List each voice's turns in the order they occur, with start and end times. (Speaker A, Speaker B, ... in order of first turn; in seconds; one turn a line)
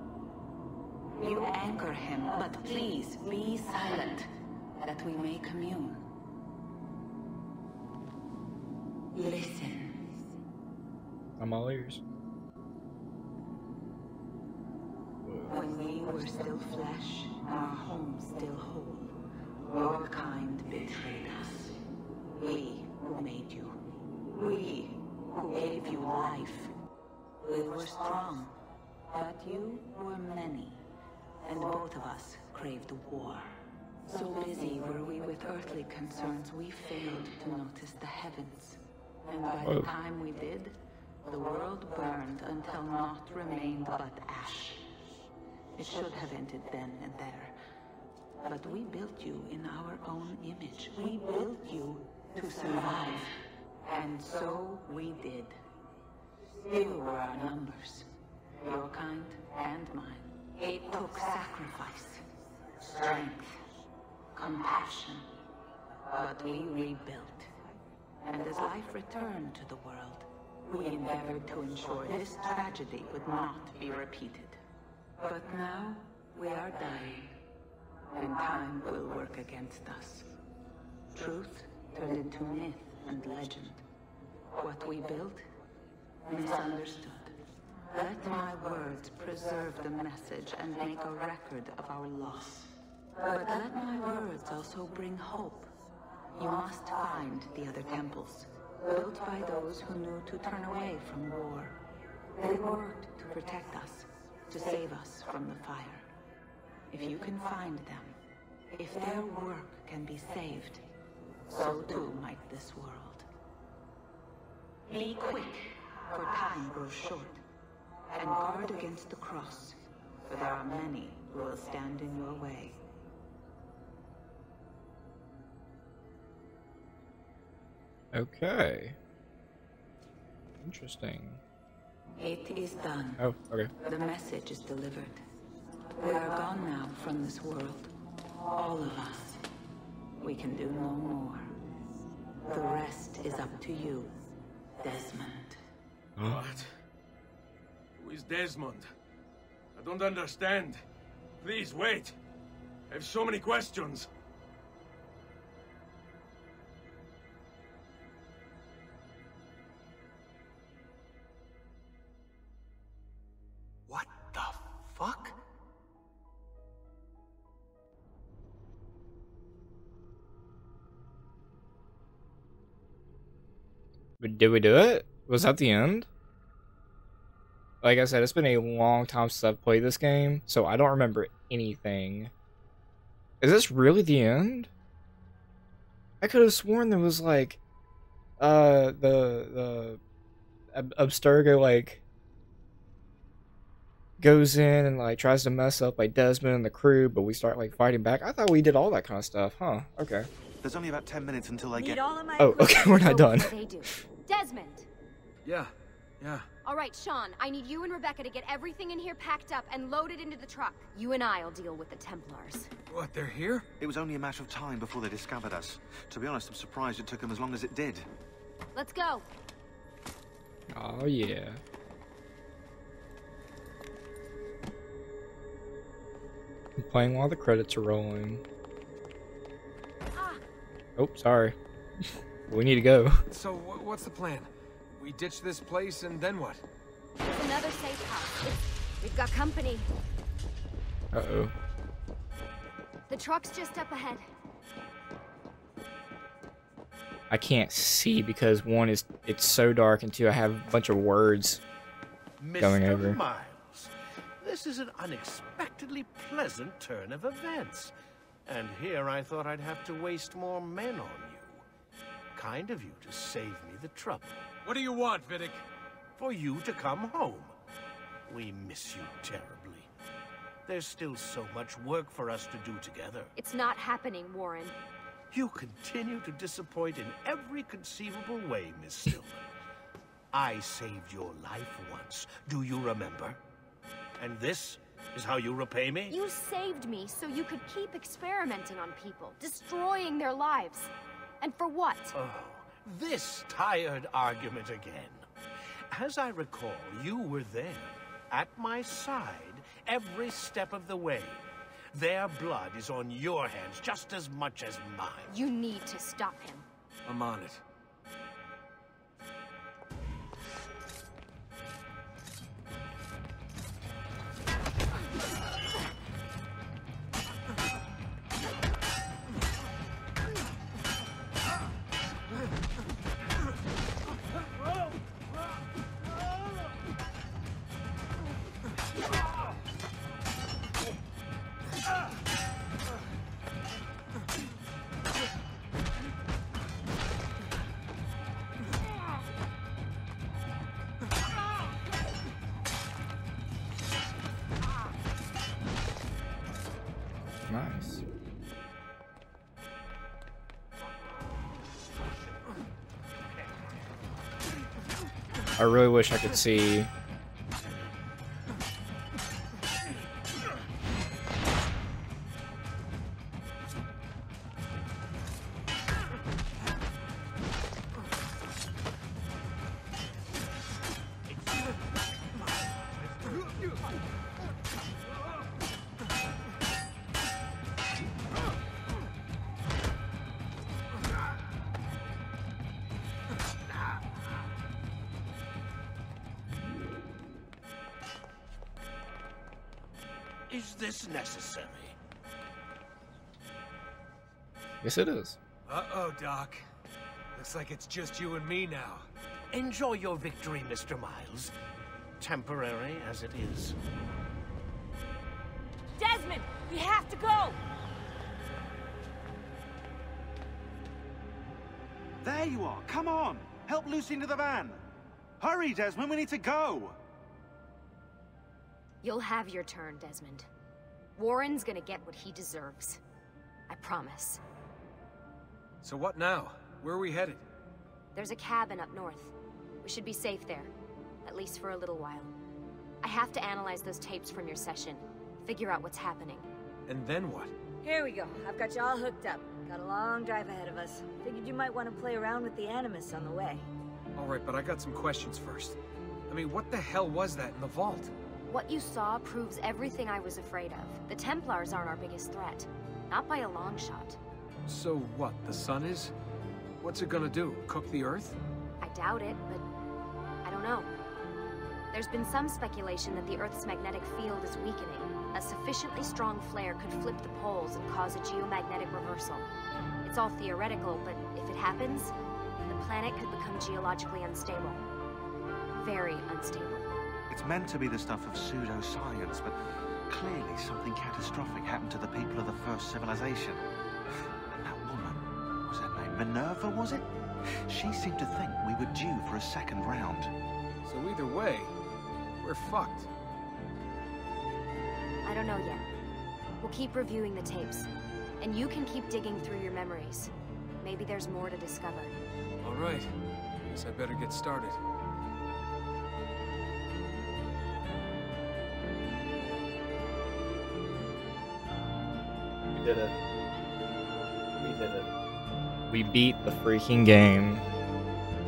Speaker A: 1.2-4.3
Speaker A: 4.8-6.0
Speaker A: 9.1-10.1
Speaker B: 11.4-12.0
Speaker B: 15.2-15.6
Speaker A: 15.5-19.1
Speaker A: 19.7-26.7
Speaker A: 27.4-28.6
Speaker A: 29.1-30.8
Speaker A: 31.4-44.8
Speaker B: 39.6-39.9
Speaker A: 45.8-47.5
Speaker A: 48.4-53.4
Speaker A: 53.9-55.6
Speaker A: 56.6-58.1
Speaker A: 58.6-62.2
Speaker A: 62.8-63.6
Speaker A: 64.3-65.3
Speaker A: 66.1-67.5
Speaker A: 68.2-74.6
Speaker A: 75.2-77.3
Speaker A: 78.1-80.3
Speaker A: 81.1-83.8
Speaker A: 84.5-85.4
Speaker A: 86.3-87.3
Speaker A: 87.9-95.7
Speaker A: 96.3-101.8
Speaker A: 102.4-106.0
Speaker A: 106.9-108.2
Speaker A: 108.7-110.8
Speaker A: 111.5-113.3
Speaker A: 114.9-117.4
Speaker A: 118.1-122.8
Speaker B: 128.1-128.9
Speaker B: 130.6-131.4
Speaker A: 132.2-133.2
Speaker B: 133.2-133.7
Speaker A: 133.8-135.2
Speaker A: 135.9-137.9
Speaker A: 138.4-139.4
Speaker A: 140.2-141.6
Speaker A: 142.5-144.1
Speaker A: 144.8-145.6
Speaker B: 146.2-146.5
Speaker C: 146.2-146.7
Speaker C: 147.9-148.9
Speaker C: 149.8-150.8
Speaker C: 151.4-152.1
Speaker C: 152.9-154.1
Speaker D: 163.9-165.3
Speaker B: 174.2-176.1
Speaker B: 177.8-182.3
Speaker B: 183.4-184.7
Speaker B: 186.2-187.6
Speaker B: 188.4-190.0
Speaker B: 190.7-192.0
Speaker B: 194.2-200.3
Speaker E: 200.6-202.1
Speaker F: 201.8-203.1
Speaker B: 202.4-203.5
Speaker G: 202.8-204.8
Speaker D: 205.4-206.4
Speaker G: 206.6-212.7
Speaker D: 212.9-213.7
Speaker E: 213.8-218.1
Speaker G: 218.7-219.3
Speaker B: 220.7-221.6
Speaker B: 226.8-228.4
Speaker B: 231.0-233.2
Speaker D: 233.3-236.6
Speaker G: 237.3-239.9
Speaker B: 241.1-241.5
Speaker G: 243.1-244.2
Speaker B: 247.3-251.6
Speaker H: 252.4-257.9
Speaker B: 252.6-253.2
Speaker H: 258.4-261.6
Speaker H: 262.4-264.4
Speaker D: 264.6-265.6
Speaker H: 266.2-267.6
Speaker H: 268.3-269.9
Speaker H: 270.6-273.3
Speaker G: 273.4-274.7
Speaker H: 275.3-279.5
Speaker H: 280.3-283.4
Speaker H: 284.2-286.1
Speaker G: 286.1-292.2
Speaker H: 292.1-295.3
Speaker H: 295.9-305.4
Speaker G: 305.3-306.6
Speaker D: 307.1-307.6
Speaker B: 347.5-348.0
Speaker B: 355.6-356.9
Speaker H: 390.5-391.9
Speaker B: 394.8-395.4
Speaker D: 395.6-396.6
Speaker D: 397.3-399.1
Speaker H: 399.5-401.5
Speaker H: 402.2-403.8
Speaker F: 406.0-407.6
Speaker E: 412.2-414.8
Speaker E: 415.4-417.0
Speaker G: 419.0-420.5
Speaker G: 421.1-423.0
Speaker G: 423.7-424.4
Speaker D: 425.8-427.4
Speaker G: 428.1-430.7
Speaker G: 431.2-432.3
Speaker G: 433.0-436.5
Speaker D: 436.9-437.5
Speaker F: 437.8-443.6
Speaker D: 444.1-445.8
Speaker D: 446.3-448.1
Speaker G: 448.5-454.2
Speaker D: 454.6-456.1
Speaker D: 456.8-458.4
Speaker G: 458.8-459.6
Speaker G: 460.4-460.9
Speaker G: 461.9-469.5
Speaker G: 470.0-472.1
Speaker G: 472.7-474.8
Speaker G: 475.8-476.9
Speaker E: 477.3-479.6
Speaker E: 480.1-483.6
Speaker E: 484.6-487.1
Speaker E: 487.7-490.3
Speaker D: 490.8-491.7
Speaker D: 492.4-493.1
Speaker G: 495.2-495.9
Speaker G: 496.6-497.9
Speaker G: 498.4-502.1
Speaker D: 502.6-503.1
Speaker D: 503.7-504.8
Speaker B: 512.7-513.1
Speaker B: 514.5-515.1
Speaker B: 515.9-517.6